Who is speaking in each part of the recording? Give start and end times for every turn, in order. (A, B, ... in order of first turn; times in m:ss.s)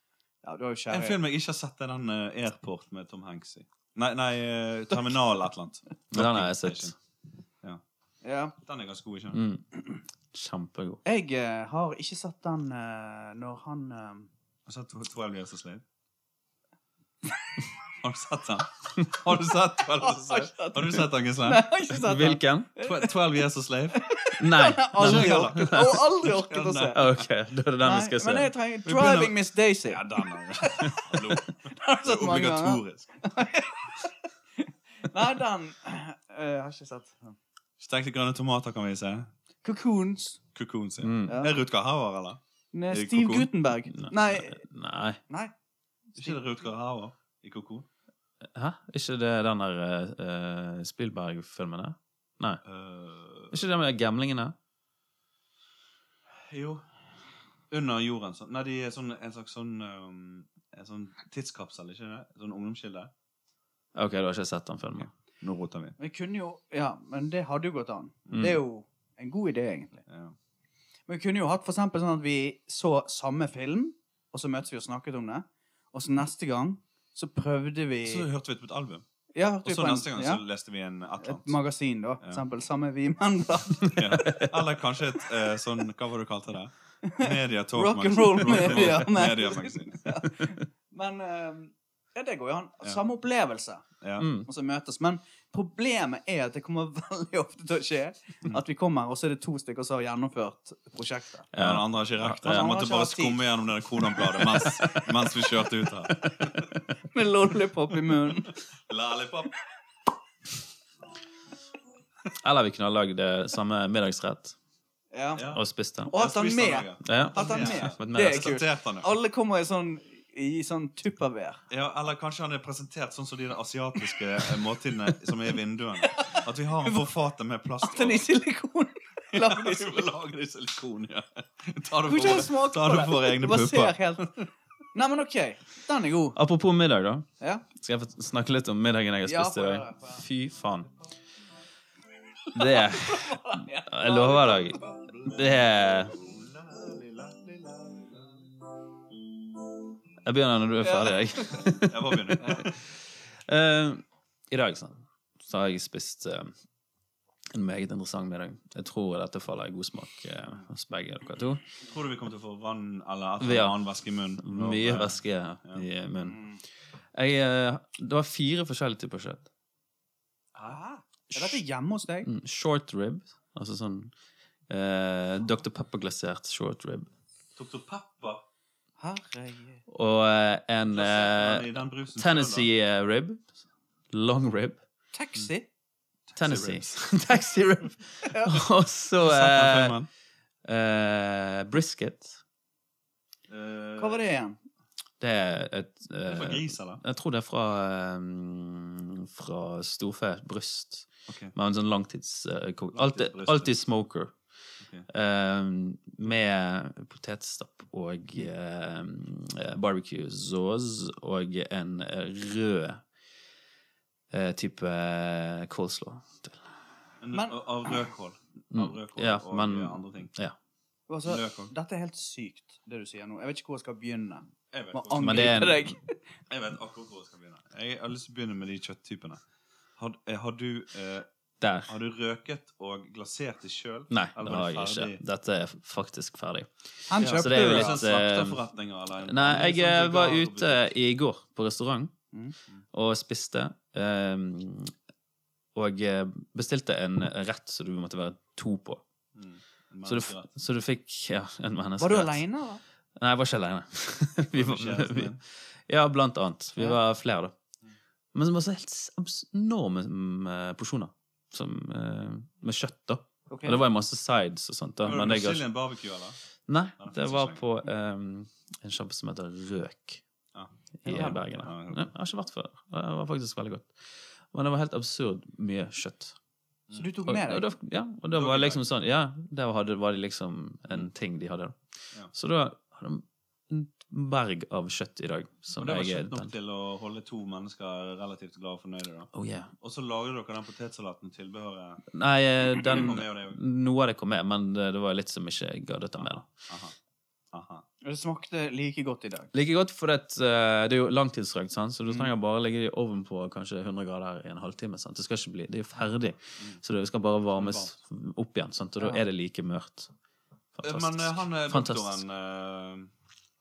0:00.4-0:01.2 A
0:00.9-0:07.0 B
0:06.1-0:06.9 C
0:08.2-0:08.6 A
0:08.6-0:09.4 B
0:09.3-0:09.6 C
0:10.3-0:11.0 C
0:11.0-0:14.3 A
0:14.7-0:15.8 B
0:18.0-0:21.6 B
0:20.0-0:23.1 A
0:22.0-0:22.7 C
0:22.8-0:24.0 B
0:23.9-0:27.0 A
0:24.4-0:26.0 C
0:25.0-0:27.2 B
0:26.9-0:28.5 C
0:27.8-0:34.1 A
0:28.8-0:33.1 B
0:34.6-0:37.4 A
0:37.8-0:39.3 B
0:39.6-0:40.4 A
0:40.6-0:43.5 B
0:41.0-0:41.4 C
0:41.3-0:41.6 A
0:42.7-0:44.6 A
0:43.9-0:45.2 C
0:46.1-0:46.4 A
0:46.2-0:47.9 B
0:48.5-0:52.6 C
0:52.6-0:53.6 B
0:53.5-0:54.5 C
0:56.3-0:56.8 B
0:57.7-1:03.1 B
1:04.0-1:05.1 C
1:05.0-1:06.0 B
1:06.0-1:10.0 A
1:08.3-1:08.6 C
1:10.1-1:10.4 B
1:11.1-1:18.3 A
1:18.0-1:19.0 B
1:19.3-1:20.4 A
1:19.6-1:21.6 B
1:21.2-1:24.0 A
1:23.9-1:30.2 B
1:27.0-1:33.8 A
1:34.0-1:34.3 B
1:34.2-1:34.5 C
1:34.5-1:41.5 A
1:41.5-1:42.8 C
1:41.5-1:46.7 B
1:42.4-1:43.4 A
1:44.3-1:45.1 C
1:47.1-1:48.6 A
1:48.9-1:49.5 B
1:52.4-1:54.6 C
1:55.1-1:55.5 A
1:55.4-1:59.1 B
1:55.5-1:56.1 C
1:56.1-2:01.6 A
1:57.0-1:58.6 C
2:01.7-2:08.3 B
2:06.0-2:07.0 A
2:07.8-2:10.1 A
2:09.3-2:14.5 B
2:12.0-2:14.3 A
2:14.9-2:16.4 A
2:16.4-2:20.9 C
2:19.2-2:20.2 A
2:22.6-2:26.2 C
2:22.6-2:24.8 A
2:24.5-2:28.4 B
2:30.2-2:32.0 C
2:30.8-2:31.6 A
2:31.8-2:32.8 B
2:32.4-2:32.6 A
2:33.5-2:36.5 C
2:37.5-2:41.6 C
2:41.8-2:45.9 B
2:43.4-2:43.8 C
2:44.4-2:46.4 C
2:46.3-2:46.6 A
2:47.1-2:49.5 C
2:50.5-2:50.8 B
2:50.7-2:52.3 A
2:51.3-2:51.6 C
2:52.2-2:54.1 C
2:54.7-2:57.1 C
2:57.6-2:58.4 B
2:59.0-2:59.8 A
2:59.9-3:03.5 C
3:00.9-3:02.7 B
3:04.1-3:04.8 C
3:05.1-3:05.7 A
3:06.3-3:07.1 B
3:06.4-3:10.0 C
3:08.2-3:08.6 A
3:09.2-3:10.1 B
3:10.6-3:12.4 C
3:13.5-3:14.2 B
3:14.0-3:14.6 A
3:15.2-3:24.4 C
3:16.3-3:17.0 B
3:21.3-3:21.6 B
3:22.9-3:23.8 B
3:24.8-3:25.1 B
3:25.1-3:33.0 C
3:34.3-3:36.6 C
3:37.2-3:40.3 B
3:37.3-3:37.6 A
3:38.7-3:40.6 C
3:41.1-3:46.2 A
3:41.3-3:41.7 B
3:44.7-3:45.9 B
3:45.2-3:45.8 C
3:46.5-3:49.4 B
3:50.0-3:51.3 B
3:51.6-3:51.9 C
3:51.9-3:55.2 B
3:54.1-3:58.6 C
3:57.1-3:57.9 A
3:57.2-4:00.9 B
3:59.2-4:02.1 C
4:02.9-4:04.9 C
4:05.8-4:09.0 C
4:09.4-4:10.5 B
4:10.0-4:12.4 C
4:12.0-4:12.8 A
4:13.2-4:17.5 C
4:14.5-4:15.4 B
4:18.3-4:25.6 C
4:23.5-4:23.8 A
4:25.0-4:26.4 B
4:26.7-4:30.2 C
4:27.0-4:27.6 B
4:30.5-4:32.1 B
4:31.0-4:33.9 C
4:31.1-4:31.3 A
4:34.5-4:36.4 C
4:36.9-4:37.7 A
4:37.2-4:41.8 C
4:38.4-4:38.8 B
4:42.3-4:46.5 C
4:45.8-4:52.1 B
4:49.3-4:49.7 C
4:52.1-4:56.5 C
4:52.8-4:53.6 B
4:56.2-4:57.0 B
4:57.5-4:57.8 B
4:58.0-4:59.5 A
4:59.5-5:10.1 C
5:02.1-5:02.3 B
5:07.6-5:07.9 B
5:10.8-5:12.2 C
5:10.8-5:13.1 B